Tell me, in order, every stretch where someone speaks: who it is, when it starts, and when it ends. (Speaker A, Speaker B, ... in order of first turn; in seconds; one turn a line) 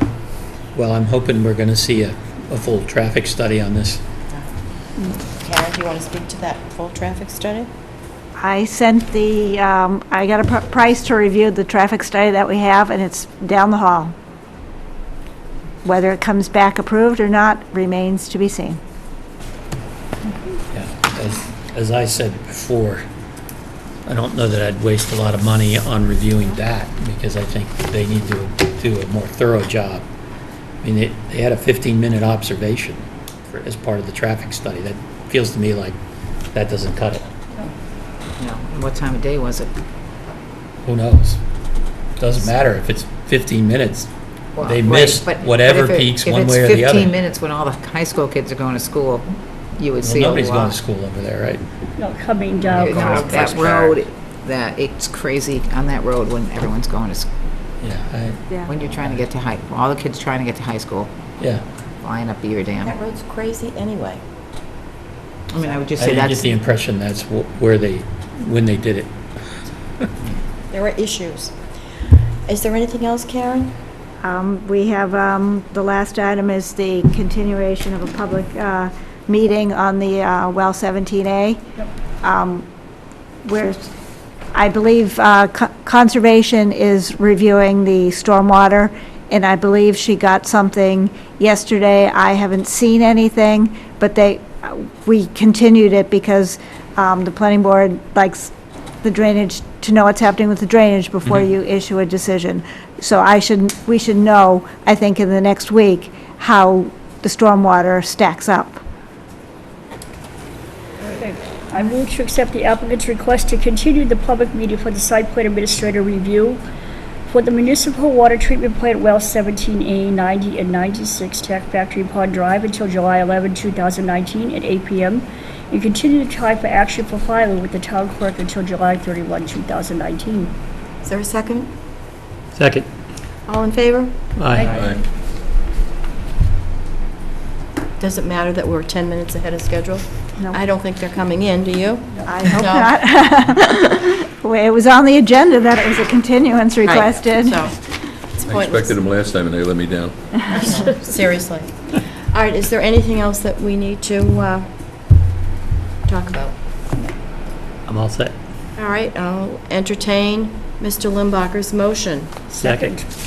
Speaker A: 0.7-4.0
Speaker B: 5.3-7.7
Speaker C: 8.4-14.1
Speaker C: 15.8-18.8
Speaker A: 20.7-23.1
Speaker A: 24.0-30.1
Speaker A: 30.8-36.0
Speaker A: 36.5-37.3
Speaker D: 38.4-39.7
Speaker A: 40.8-41.4
Speaker A: 42.2-44.1
Speaker D: 44.5-50.8
Speaker A: 44.6-47.1
Speaker A: 50.0-51.6
Speaker E: 52.0-53.6
Speaker A: 52.6-54.0
Speaker D: 52.7-57.3
Speaker A: 57.8-59.1
Speaker D: 58.7-61.1
Speaker A: 61.4-61.6
Speaker D: 62.0-63.0
Speaker B: 62.8-64.2
Speaker D: 65.5-66.6
Speaker A: 66.0-69.1
Speaker B: 70.7-71.5
Speaker B: 72.5-73.7
Speaker C: 74.2-81.6
Speaker C: 82.2-82.7
Speaker C: 83.5-83.9
Speaker C: 84.5-98.5
Speaker C: 99.0-108.8
Speaker E: 111.1-116.6
Speaker E: 117.3-130.5
Speaker B: 131.0-131.7
Speaker A: 132.6-132.9
Speaker B: 133.5-134.1
Speaker A: 134.4-134.8
Speaker E: 134.6-134.9
Speaker F: 134.7-135.0
Speaker B: 138.0-143.1
Speaker C: 142.2-147.6
Speaker B: 146.8-147.8
Speaker B: 148.3-149.0
Speaker F: 148.4-150.2
Speaker B: 150.5-154.7
Speaker B: 156.1-156.6
Speaker A: 157.9-158.3
Speaker B: 158.8-162.3
Speaker E: 162.5-163.1
Speaker A: 162.6-162.9